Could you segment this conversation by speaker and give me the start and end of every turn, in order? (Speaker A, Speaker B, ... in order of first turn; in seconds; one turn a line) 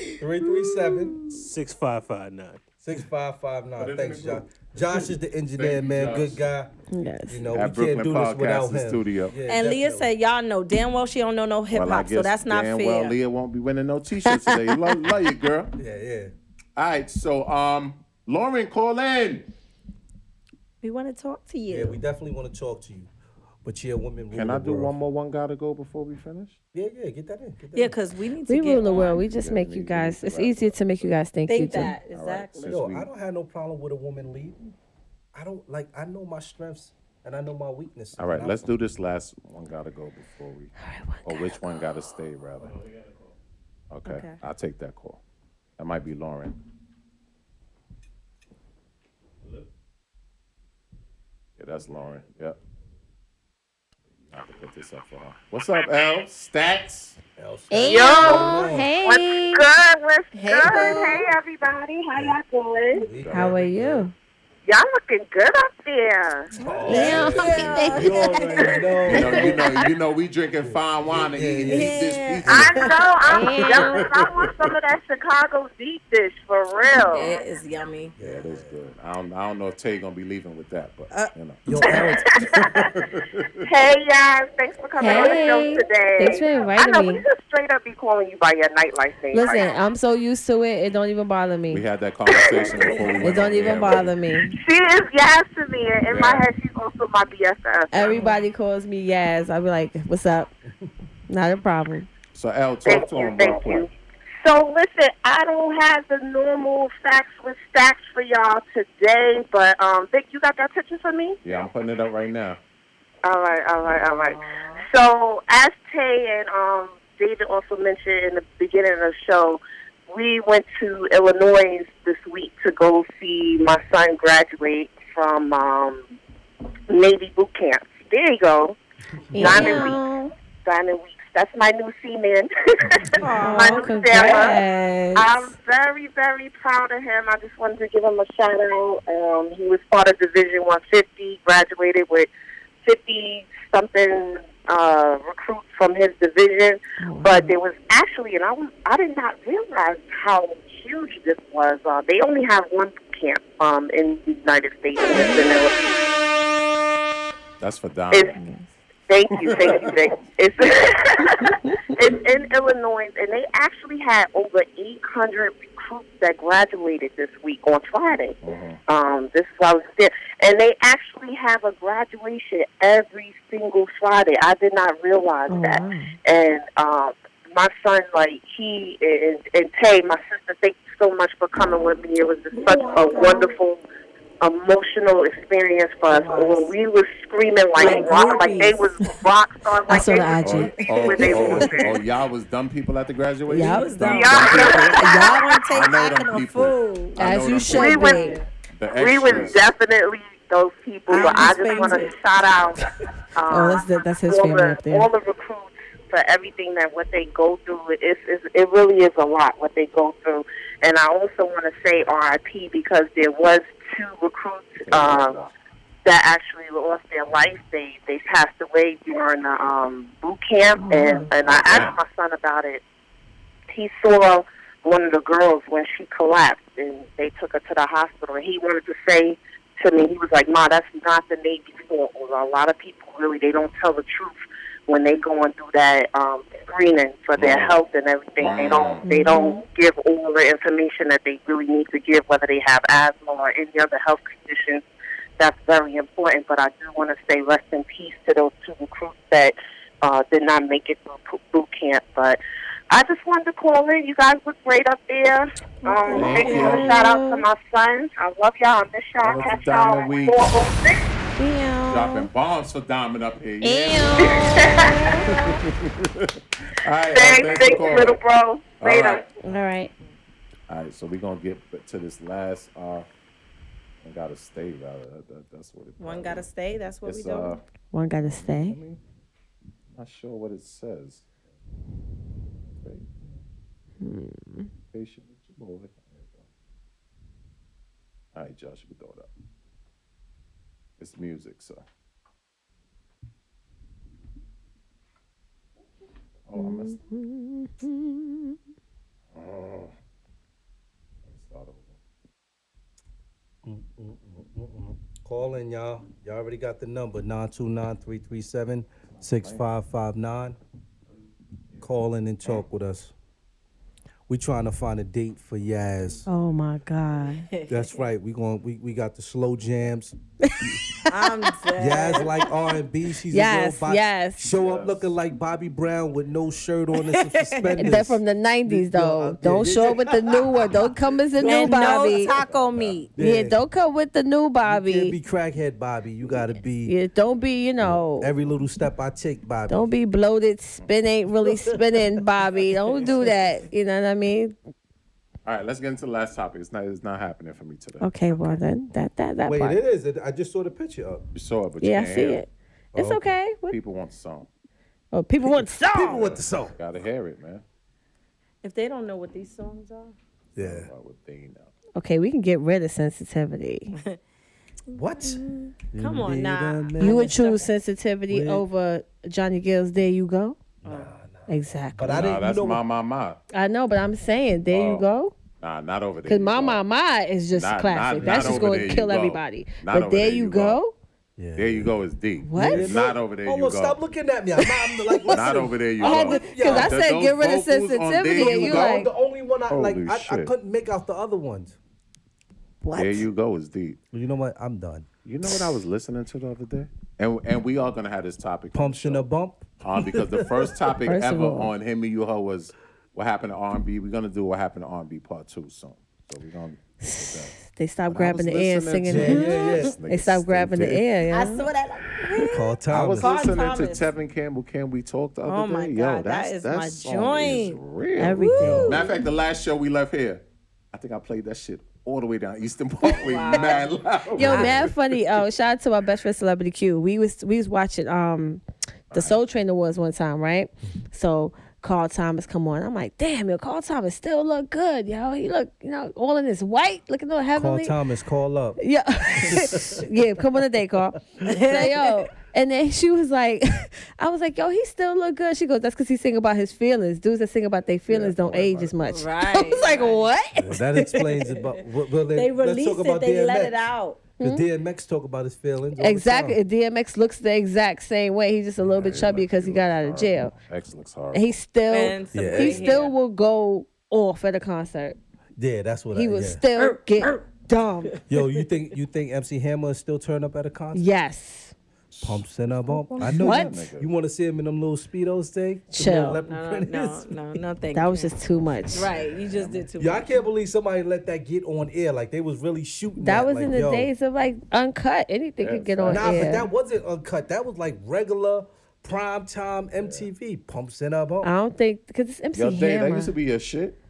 Speaker A: 0.2-1.2
Speaker B: 1.3-2.6
Speaker A: 2.8-6.7
Speaker C: 3.8-5.0
Speaker C: 5.5-6.4
Speaker D: 6.9-7.5
Speaker A: 7.3-10.1
Speaker C: 7.5-9.3
Speaker E: 9.5-13.2
Speaker C: 11.7-15.7
Speaker A: 15.8-16.3
Speaker C: 16.8-19.5
Speaker E: 20.8-22.0
Speaker A: 21.7-23.1
Speaker A: 23.6-24.9
Speaker C: 24.3-26.6
Speaker A: 26.7-28.0
Speaker E: 27.7-29.2
Speaker D: 28.5-32.0
Speaker C: 28.9-31.2
Speaker E: 31.5-32.8
Speaker C: 31.7-33.1
Speaker A: 32.7-34.7
Speaker A: 35.3-38.6
Speaker C: 38.2-40.7
Speaker D: 40.8-41.6
Speaker C: 41.2-42.8
Speaker B: 42.5-43.4
Speaker C: 43.9-45.2
Speaker E: 44.1-44.4
Speaker C: 45.8-46.6
Speaker B: 49.4-49.7
Speaker C: 51.6-52.6
Speaker B: 51.7-52.5
Speaker B: 54.3-54.7
Speaker C: 54.3-57.2
Speaker A: 57.4-58.9
Speaker D: 57.7-59.6
Speaker F: 57.8-63.1
Speaker D: 60.3-61.3
Speaker A: 63.0-64.1
Speaker C: 63.1-63.6
Speaker D: 63.3-64.1
Speaker F: 64.7-67.2
Speaker A: 66.6-69.8
Speaker D: 66.8-69.8
Speaker E: 66.9-68.3
Speaker C: 67.0-68.2
Speaker F: 68.4-68.9
Speaker C: 69.0-73.0
Speaker A: 70.6-72.0
Speaker E: 71.7-73.0
Speaker F: 72.5-77.4
Speaker D: 73.3-74.1
Speaker C: 73.8-74.7
Speaker E: 77.1-78.2
Speaker A: 78.2-78.8
Speaker C: 78.2-83.7
Speaker A: 81.1-82.5
Speaker F: 81.9-82.9
Speaker F: 83.7-89.8
Speaker D: 85.0-87.2
Speaker D: 89.3-91.8
Speaker C: 91.7-94.2
Speaker F: 92.3-93.2
Speaker D: 93.2-94.6
Speaker F: 94.5-98.3
Speaker C: 96.1-96.5
Speaker D: 97.9-100.5
Speaker D: 101.3-102.1
Speaker C: 102.3-103.9
Speaker F: 102.8-103.9
Speaker F: 104.4-111.5
Speaker C: 111.4-112.6
Speaker F: 113.2-126.1
Speaker F: 126.9-128.8
Speaker D: 129.3-130.3
Speaker F: 129.3-130.1
Speaker F: 130.6-134.6
Speaker E: 133.2-134.8
Speaker D: 133.4-135.3
Speaker F: 135.2-142.3
Speaker F: 142.8-155.9
Speaker D: 147.0-147.5
Speaker D: 155.1-155.4
Speaker C: 157.6-158.4
Speaker D: 158.4-158.7
Speaker F: 159.1-183.8
Speaker C: 159.3-160.0
Speaker C: 168.4-168.8
Speaker D: 175.5-176.2
Speaker E: 182.5-183.5
Speaker F: 184.4-192.0
Speaker E: 186.1-186.7
Speaker E: 187.8-189.0
Speaker D: 189.9-190.7
Speaker E: 190.0-192.0
Speaker C: 190.4-198.0
Speaker E: 193.5-197.2
Speaker D: 193.5-194.0
Speaker F: 194.0-195.7
Speaker D: 197.2-198.4
Speaker E: 197.7-198.5
Speaker F: 197.7-198.4
Speaker C: 198.7-199.6
Speaker F: 198.9-215.4
Speaker E: 201.1-202.2
Speaker D: 203.5-205.1
Speaker C: 214.8-215.5
Speaker F: 216.1-222.8
Speaker D: 220.8-221.3
Speaker C: 221.3-222.0
Speaker F: 223.7-234.4
Speaker F: 234.9-244.8
Speaker C: 237.4-237.8
Speaker C: 238.4-239.1
Speaker D: 239.1-239.6
Speaker F: 245.4-252.4
Speaker F: 252.9-261.1
Speaker E: 255.8-256.9
Speaker C: 256.1-256.9
Speaker D: 256.4-257.5
Speaker C: 259.2-260.4
Speaker D: 261.4-262.3
Speaker C: 261.9-268.2
Speaker D: 263.6-265.3
Speaker F: 264.2-265.2
Speaker F: 267.1-269.3
Speaker C: 268.8-269.3
Speaker D: 269.4-269.9
Speaker C: 270.7-273.1
Speaker C: 274.0-276.5
Speaker E: 276.0-277.6
Speaker C: 277.0-277.6
Speaker D: 277.9-278.8
Speaker C: 278.2-279.0
Speaker C: 279.9-281.2
Speaker C: 282.8-283.4
Speaker D: 284.0-284.7
Speaker C: 284.9-286.4
Speaker C: 288.3-289.3
Speaker C: 291.0-291.9
Speaker C: 296.5-297.0
Speaker D: 296.5-298.6
Speaker C: 299.3-299.9
Speaker C: 301.3-301.9
Speaker A: 303.6-310.6
Speaker C: 309.2-309.6
Speaker A: 311.8-313.1
Speaker A: 314.3-316.3
Speaker D: 316.3-317.5
Speaker E: 317.5-318.1
Speaker A: 317.7-320.8
Speaker D: 320.4-321.1
Speaker E: 321.1-322.5
Speaker A: 321.8-330.7
Speaker D: 323.3-324.4
Speaker C: 324.5-325.1
Speaker E: 327.0-327.8
Speaker D: 327.8-332.3
Speaker A: 331.4-332.0
Speaker E: 331.4-333.1
Speaker C: 332.1-333.0
Speaker A: 333.1-333.6
Speaker D: 333.2-335.2
Speaker A: 334.6-336.9
Speaker D: 336.8-338.3
Speaker A: 337.8-339.9
Speaker D: 339.7-344.6
Speaker C: 345.4-348.6
Speaker D: 348.0-349.8
Speaker A: 349.4-351.2
Speaker C: 351.4-352.4
Speaker D: 351.8-353.8
Speaker A: 352.9-353.3
Speaker C: 353.7-354.5
Speaker D: 355.1-356.3
Speaker A: 355.4-356.8
Speaker C: 356.0-357.6
Speaker E: 358.6-360.2
Speaker A: 360.6-360.9
Speaker C: 360.6-361.7
Speaker D: 362.0-363.9
Speaker E: 364.9-367.7
Speaker A: 364.9-367.3
Speaker D: 367.0-370.6
Speaker A: 368.3-368.6
Speaker A: 370.8-372.8
Speaker E: 370.9-371.1
Speaker D: 371.5-372.4
Speaker C: 372.1-373.4
Speaker D: 373.5-375.4
Speaker C: 374.7-375.1
Speaker C: 375.6-376.8
Speaker D: 376.3-380.9
Speaker C: 377.5-380.8
Speaker A: 378.2-378.8
Speaker A: 381.4-382.0
Speaker C: 381.6-384.0
Speaker D: 382.4-383.0
Speaker A: 382.6-387.0
Speaker D: 385.1-385.4
Speaker C: 385.3-389.1
Speaker D: 386.0-389.1
Speaker A: 388.3-391.8
Speaker C: 389.7-390.5
Speaker D: 392.8-393.3
Speaker C: 392.9-394.0
Speaker A: 394.1-395.1
Speaker C: 395.2-399.3
Speaker A: 398.7-400.9
Speaker C: 399.8-407.6
Speaker D: 401.1-401.7
Speaker D: 407.0-411.7
Speaker C: 408.1-411.1
Speaker A: 409.1-410.0
Speaker E: 411.3-414.1
Speaker A: 412.5-413.4
Speaker C: 412.9-425.2
Speaker E: 415.4-417.8
Speaker D: 418.2-419.1
Speaker E: 418.3-419.2
Speaker E: 423.0-424.8
Speaker D: 424.4-437.9
Speaker C: 429.1-429.4
Speaker A: 437.6-438.8
Speaker D: 438.8-450.8
Speaker A: 439.4-440.1
Speaker E: 441.4-442.1
Speaker C: 448.1-448.9
Speaker E: 449.1-450.3
Speaker A: 450.6-453.8
Speaker E: 451.0-451.6
Speaker E: 452.3-454.2
Speaker D: 454.4-454.7
Speaker A: 454.4-456.6
Speaker D: 456.0-460.5
Speaker C: 458.8-461.6
Speaker D: 461.3-465.2
Speaker E: 461.9-463.2
Speaker A: 462.3-463.0
Speaker A: 465.6-466.6
Speaker D: 466.1-468.1
Speaker E: 466.8-467.5
Speaker E: 468.1-468.4
Speaker A: 468.2-471.1
Speaker D: 470.9-471.7
Speaker C: 472.1-472.4
Speaker A: 472.2-477.6
Speaker C: 472.9-474.1
Speaker D: 473.2-473.8
Speaker D: 475.9-476.4
Speaker E: 476.0-478.3
Speaker D: 477.9-479.1
Speaker E: 478.9-480.4
Speaker C: 479.2-479.9
Speaker A: 480.0-484.1
Speaker D: 483.2-486.7
Speaker C: 485.6-486.6
Speaker A: 486.1-491.5
Speaker C: 490.0-490.3
Speaker D: 491.4-493.4
Speaker C: 492.5-494.0